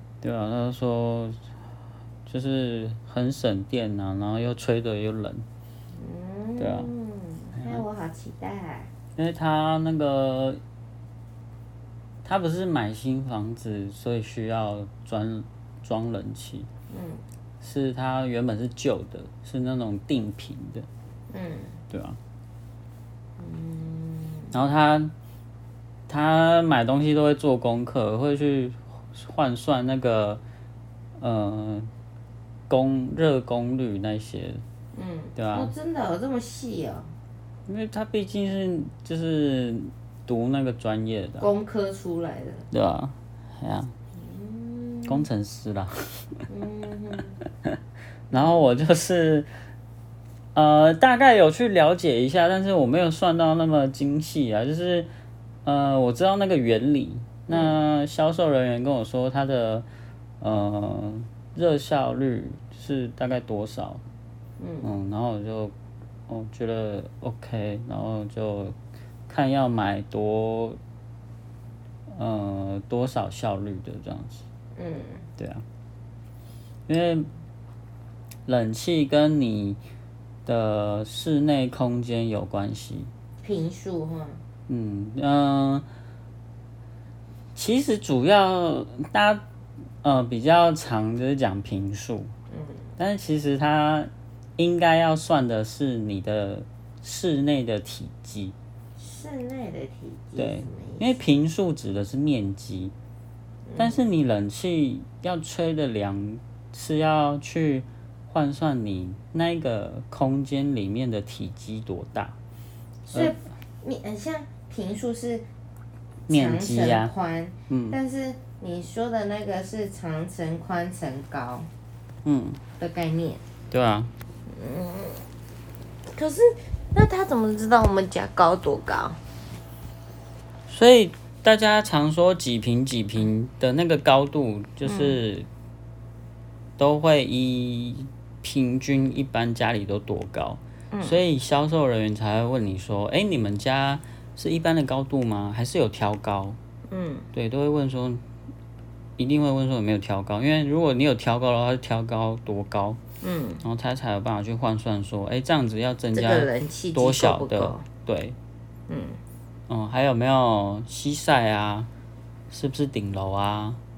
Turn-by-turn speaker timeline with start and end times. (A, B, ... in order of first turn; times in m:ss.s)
0:00.2-0:01.4 A
0:02.2-0:05.4 A
0:06.0-0:08.9 B
0:06.6-0:06.9 A
0:07.5-0:07.8 A
0:09.2-0:10.6 A
0:12.2-0:16.7 A
0:16.9-0:17.2 B
0:17.6-0:20.9 A
0:21.3-0:21.7 B
0:21.9-0:22.2 A
0:23.4-0:24.5 B
0:24.5-0:25.1 A
0:26.1-0:30.4 A
0:31.2-0:31.9 A
0:32.7-0:34.6 A
0:34.9-0:37.1 B
0:35.4-0:35.7 A
0:37.7-0:41.5 A
0:41.4-0:42.7 B
0:42.7-0:43.9 A
0:44.2-0:45.2 B
0:45.1-0:46.4 A
0:46.5-0:47.4 B
0:48.3-0:49.5 A
0:50.5-0:55.1 A
0:55.6-0:59.9 A
0:57.5-0:57.7 B
1:00.4-1:04.0 A
1:04.6-1:04.9 B
1:04.8-1:05.7 A
1:06.3-1:08.8 A
1:09.3-1:10.8 A
1:12.1-1:14.4 A
1:14.8-1:15.2 B
1:15.4-1:15.6 A
1:16.9-1:17.3 A
1:18.5-1:19.8 A
1:20.4-1:23.1 A
1:23.4-1:24.4 B
1:24.7-1:25.9 A
1:27.5-1:29.4 A
1:30.0-1:32.3 A
1:32.5-1:32.8 B
1:33.0-1:38.5 A
1:39.0-1:41.1 B
1:40.4-1:42.9 A
1:43.7-1:44.0 B
1:43.8-1:52.4 A
1:53.1-1:55.4 B
1:56.3-1:57.1 A
1:56.3-2:01.7 B
1:57.7-1:58.0 A
2:02.2-2:02.6 A
2:02.8-2:03.4 B
2:03.7-2:04.1 A
2:04.5-2:05.2 B
2:06.1-2:09.2 B
2:10.7-2:15.5 A
2:14.8-2:15.2 B
2:16.8-2:26.6 A
2:20.9-2:21.2 B
2:26.9-2:27.3 B
2:27.3-2:28.2 A
2:29.2-2:33.0 A
2:33.2-2:33.6 B
2:33.6-2:38.4 A
2:36.1-2:37.8 B
2:38.9-2:39.2 B
2:39.7-2:41.9 A
2:42.5-2:43.8 A